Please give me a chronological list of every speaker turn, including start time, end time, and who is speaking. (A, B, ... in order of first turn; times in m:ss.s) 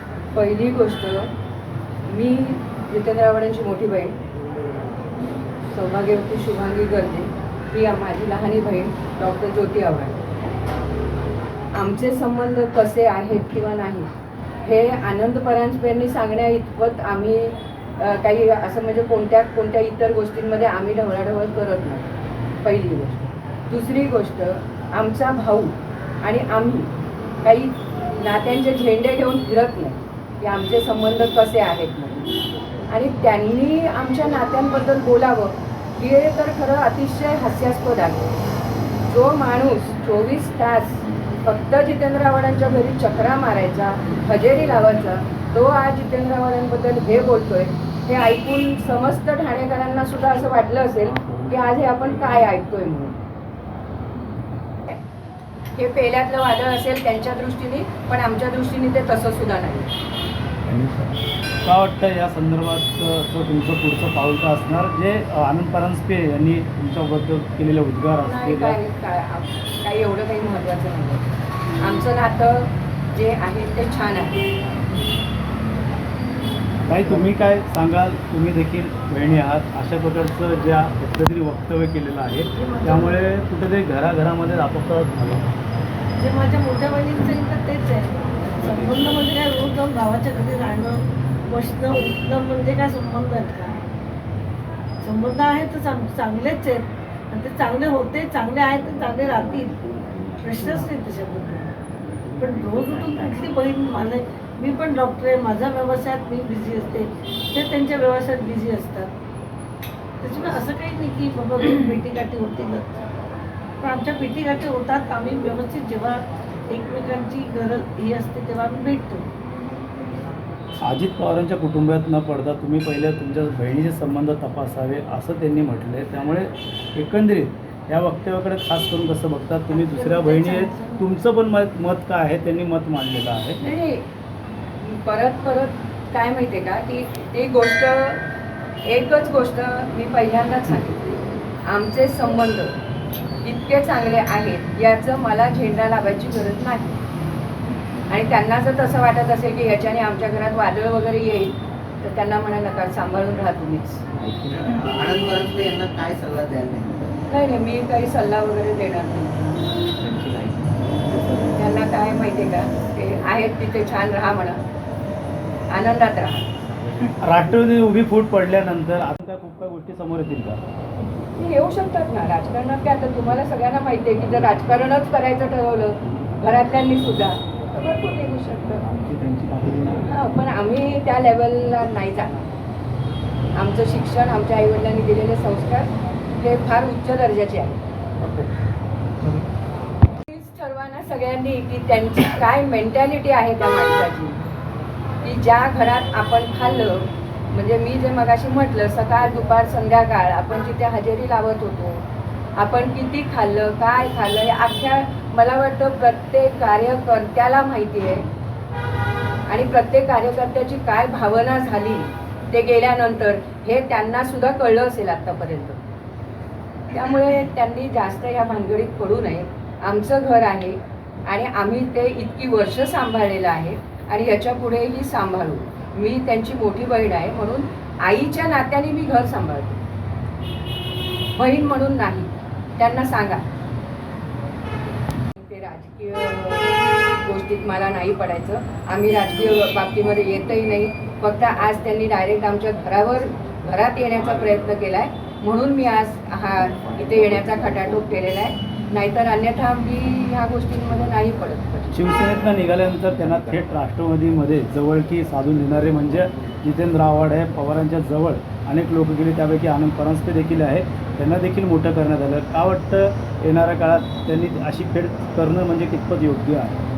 0:00.3-0:01.3 A
0:02.1-0:04.1 A
0:05.7-0:10.2 A
0:11.7-0:14.1 A
0:14.6-0:22.1 A
0:22.6-0:26.9 A
0:27.4-0:32.3 A
0:32.9-0:38.3 A
0:39.1-0:53.2 A
0:55.8-0:59.9 A
1:00.7-1:01.1 B
1:01.6-1:08.8 B
1:08.2-1:11.3 A
1:11.8-1:14.4 A
1:16.8-1:25.5 B
1:22.5-1:23.2 C
1:26.2-1:33.8 C
1:35.0-1:39.8 C
1:40.4-1:41.7 C
1:42.4-1:49.1 C
1:50.2-1:53.0 C
1:53.8-1:59.2 C
2:00.8-2:13.6 B
2:09.7-2:11.1 C
2:13.6-2:14.0 A
2:14.8-2:18.2 A
2:18.8-2:22.7 A
2:23.4-2:27.0 A
2:28.1-2:34.0 A
2:34.5-2:37.0 D
2:37.3-2:39.4 A
2:41.5-2:44.6 A
2:45.7-2:46.5 A
2:47.0-2:50.6 B
2:51.3-2:58.8 A
2:58.9-3:00.1 B
3:00.1-3:02.4 A
3:03.5-3:07.8 A
3:10.2-3:14.4 A
3:15.2-3:22.0 A
3:22.6-3:28.2 A
3:29.5-3:35.8 A
3:36.9-3:49.8 A
3:51.3-3:53.4 A
3:55.4-4:12.0 A
4:11.9-4:26.8 B